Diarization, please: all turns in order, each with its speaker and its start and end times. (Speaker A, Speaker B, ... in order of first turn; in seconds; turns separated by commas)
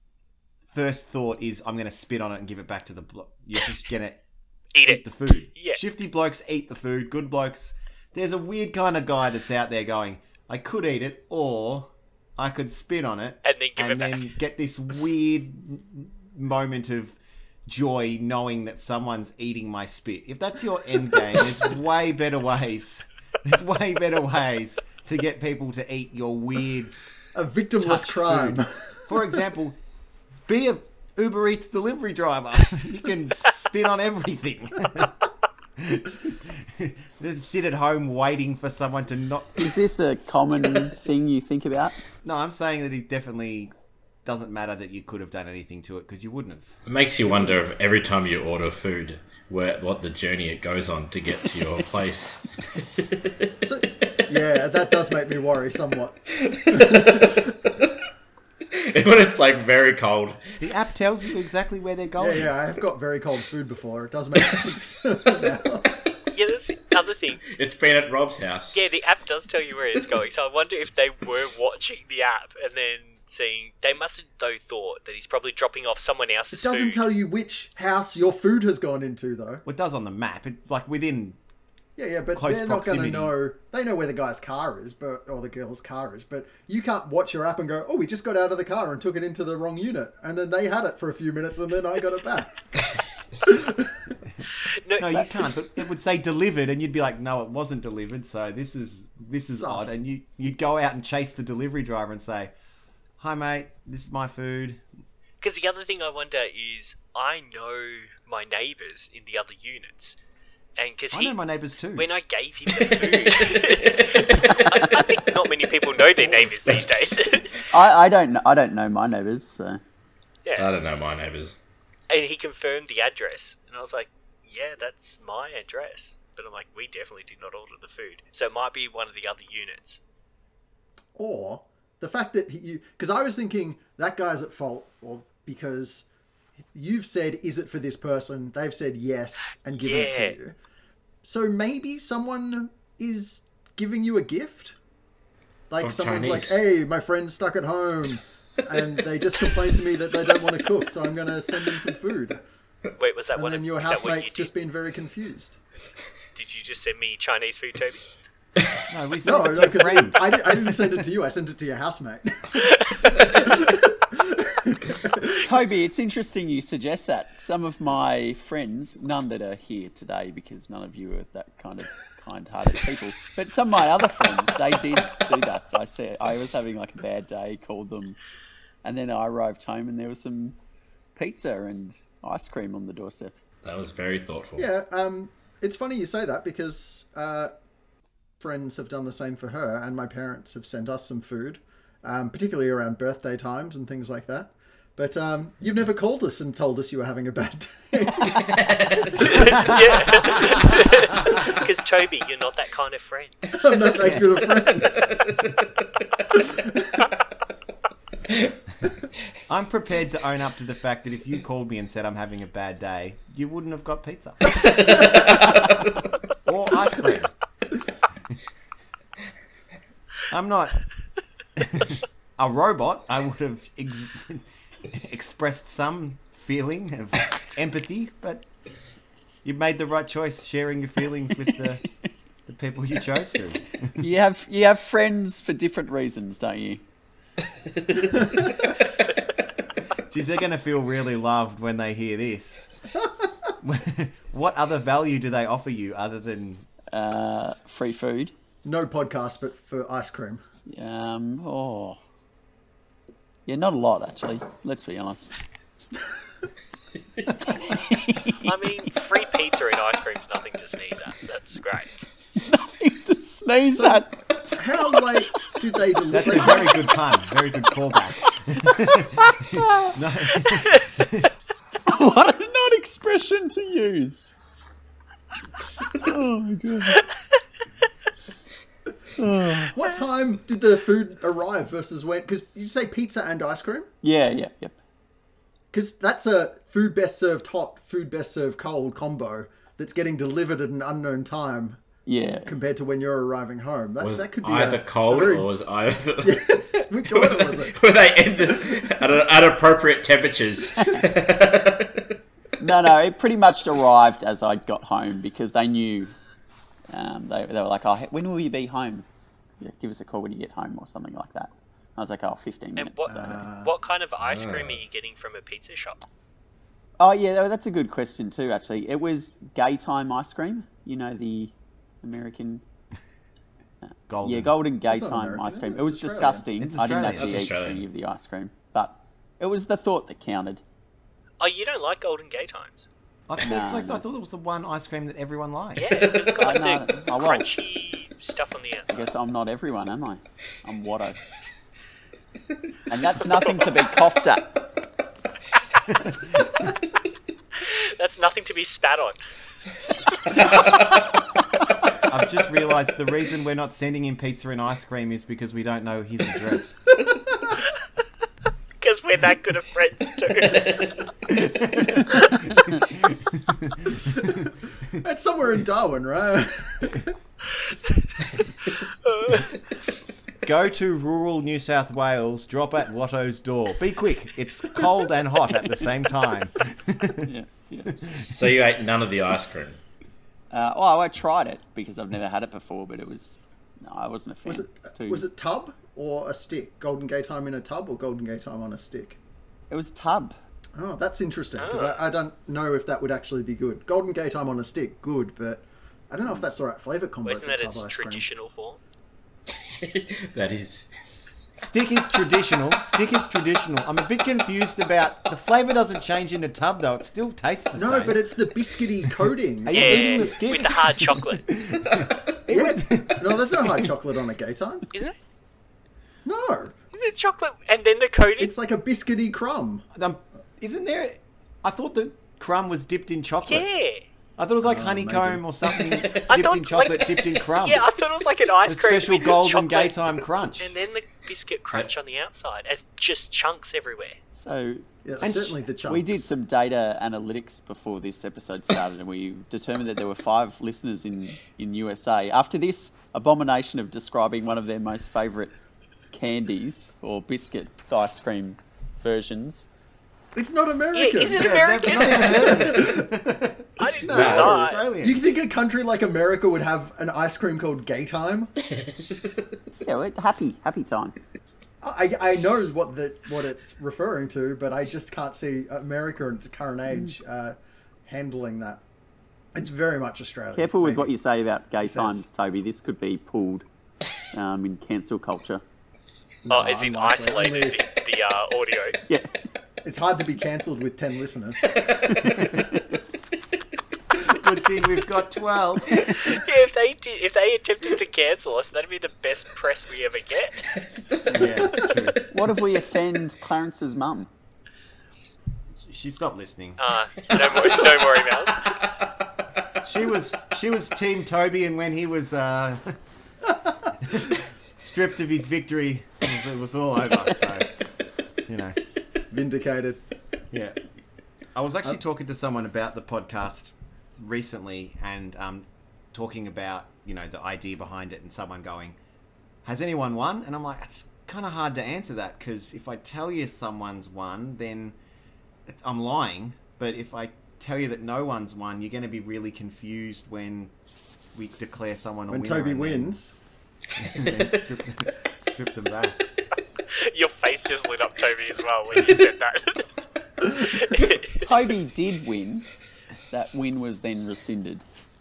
Speaker A: 0.7-4.2, Speaker B: 4.7-5.8, Speaker A: 4.8-26.9, Speaker B: 13.4-14.3, Speaker C: 27.3-28.9, Speaker A: 27.8-29.8, Speaker A: 30.5-35.1, Speaker A: 35.8-39.7, Speaker D: 39.6-42.0, Speaker A: 42.2-43.7, Speaker A: 44.2-46.7, Speaker E: 46.9-52.8, Speaker C: 53.6-57.7, Speaker E: 56.5-56.9, Speaker E: 58.7-60.5, Speaker A: 60.6-62.5, Speaker C: 62.2-66.0, Speaker B: 66.3-67.4, Speaker E: 67.5-68.8, Speaker B: 68.7-77.0, Speaker C: 76.5-79.6, Speaker A: 79.6-81.4, Speaker C: 82.0-92.8, Speaker A: 82.3-83.3, Speaker C: 93.4-93.9, Speaker B: 94.7-95.2, Speaker A: 95.0-102.5, Speaker C: 99.5-100.0, Speaker A: 103.2-104.8, Speaker B: 105.4-110.2, Speaker B: 110.8-111.4, Speaker A: 111.1-112.1, Speaker B: 111.9-117.6, Speaker D: 114.4-114.9, Speaker D: 117.7-119.8, Speaker E: 120.6-121.5, Speaker B: 122.1-130.0, Speaker C: 131.2-136.1, Speaker C: 136.7-140.6, Speaker B: 139.8-140.3, Speaker C: 141.2-144.8, Speaker C: 145.7-152.4, Speaker E: 145.8-146.6, Speaker B: 153.0-154.5, Speaker C: 153.3-155.6, Speaker B: 156.3-158.0, Speaker A: 158.9-160.4, Speaker C: 159.2-165.4, Speaker D: 165.4-178.2, Speaker D: 178.8-180.6, Speaker D: 181.2-183.3, Speaker E: 183.6-184.7, Speaker C: 184.6-187.5, Speaker C: 188.4-200.4, Speaker E: 198.5-199.1, Speaker B: 199.2-203.5, Speaker C: 203.5-205.2, Speaker C: 206.3-207.1, Speaker A: 209.5-215.6, Speaker E: 214.9-215.9, Speaker A: 216.4-217.3, Speaker A: 220.3-220.8, Speaker A: 221.6-228.4, Speaker A: 229.4-231.8, Speaker A: 232.4-234.0, Speaker D: 234.0-236.8, Speaker A: 240.1-242.7, Speaker C: 243.0-243.5, Speaker A: 243.6-246.7, Speaker D: 246.9-248.3, Speaker C: 248.6-250.4, Speaker D: 250.7-252.0, Speaker D: 253.4-255.3, Speaker D: 257.7-258.5, Speaker B: 258.4-261.9, Speaker D: 262.4-264.1, Speaker C: 263.8-267.0, Speaker A: 266.1-271.3, Speaker D: 268.6-269.9, Speaker D: 271.9-274.4, Speaker D: 275.9-277.0, Speaker D: 279.2-279.7, Speaker C: 279.6-283.9, Speaker D: 284.0-284.8, Speaker C: 285.7-291.8, Speaker D: 292.1-292.5, Speaker C: 292.4-295.5, Speaker E: 294.0-302.1, Speaker C: 296.2-297.8, Speaker D: 300.8-301.0, Speaker D: 302.6-306.1, Speaker D: 306.9-309.0, Speaker D: 309.6-313.4, Speaker B: 312.8-316.0, Speaker C: 313.1-313.7, Speaker E: 314.2-314.8, Speaker D: 317.0-322.6, Speaker D: 323.8-330.6, Speaker A: 324.1-324.5, Speaker C: 324.9-326.5, Speaker A: 326.6-327.5, Speaker E: 327.1-327.8, Speaker B: 331.4-332.9, Speaker A: 333.3-335.9, Speaker D: 333.4-334.0, Speaker B: 335.8-339.1, Speaker D: 336.4-337.5, Speaker D: 338.9-341.2, Speaker D: 342.9-344.7, Speaker B: 347.6-349.2, Speaker E: 350.3-350.9, Speaker A: 352.1-356.8, Speaker B: 358.8-360.8, Speaker A: 361.3-364.3, Speaker C: 364.1-367.1, Speaker B: 369.0-369.6, Speaker A: 370.4-377.3, Speaker D: 377.2-378.0, Speaker E: 378.1-379.8, Speaker D: 380.5-385.2, Speaker C: 384.4-389.2, Speaker D: 389.7-390.4, Speaker C: 390.8-398.2, Speaker B: 391.6-392.0, Speaker B: 397.2-398.8, Speaker E: 399.6-401.2, Speaker A: 401.6-408.2, Speaker C: 407.8-410.4, Speaker A: 409.6-413.9, Speaker B: 409.7-411.4, Speaker C: 412.5-414.9, Speaker C: 416.2-416.7, Speaker B: 416.9-418.5, Speaker C: 418.4-419.9, Speaker A: 419.9-423.7, Speaker B: 423.4-424.0, Speaker A: 424.4-427.9, Speaker C: 424.6-425.4, Speaker B: 426.1-429.9, Speaker A: 428.6-430.7, Speaker B: 430.6-434.2, Speaker D: 434.3-434.8, Speaker C: 435.0-436.3, Speaker A: 435.2-435.6, Speaker D: 435.8-445.5, Speaker D: 446.1-449.7, Speaker C: 450.3-453.1, Speaker B: 450.9-452.8, Speaker A: 451.3-455.2, Speaker B: 453.8-454.8, Speaker C: 454.1-458.5, Speaker E: 454.1-454.5, Speaker D: 459.8-461.1, Speaker C: 461.8-468.8, Speaker C: 469.5-471.1, Speaker D: 470.5-473.6, Speaker C: 471.8-472.2, Speaker D: 474.3-475.6, Speaker C: 476.4-477.8, Speaker B: 476.5-479.0, Speaker C: 479.8-482.2, Speaker D: 482.1-482.8, Speaker A: 484.1-486.4, Speaker B: 486.0-490.7, Speaker A: 491.3-492.2, Speaker D: 492.3-494.3, Speaker A: 495.8-496.8, Speaker B: 496.8-498.7, Speaker A: 499.8-503.0, Speaker A: 504.0-507.7, Speaker A: 508.4-508.8, Speaker C: 509.3-510.0, Speaker A: 510.5-510.8, Speaker A: 511.5-519.0, Speaker A: 519.6-525.0, Speaker A: 525.7-530.7, Speaker A: 531.3-533.2, Speaker C: 532.3-533.3, Speaker A: 534.0-536.2, Speaker B: 536.9-539.9, Speaker B: 540.4-541.4, Speaker D: 541.4-542.7, Speaker D: 543.3-544.8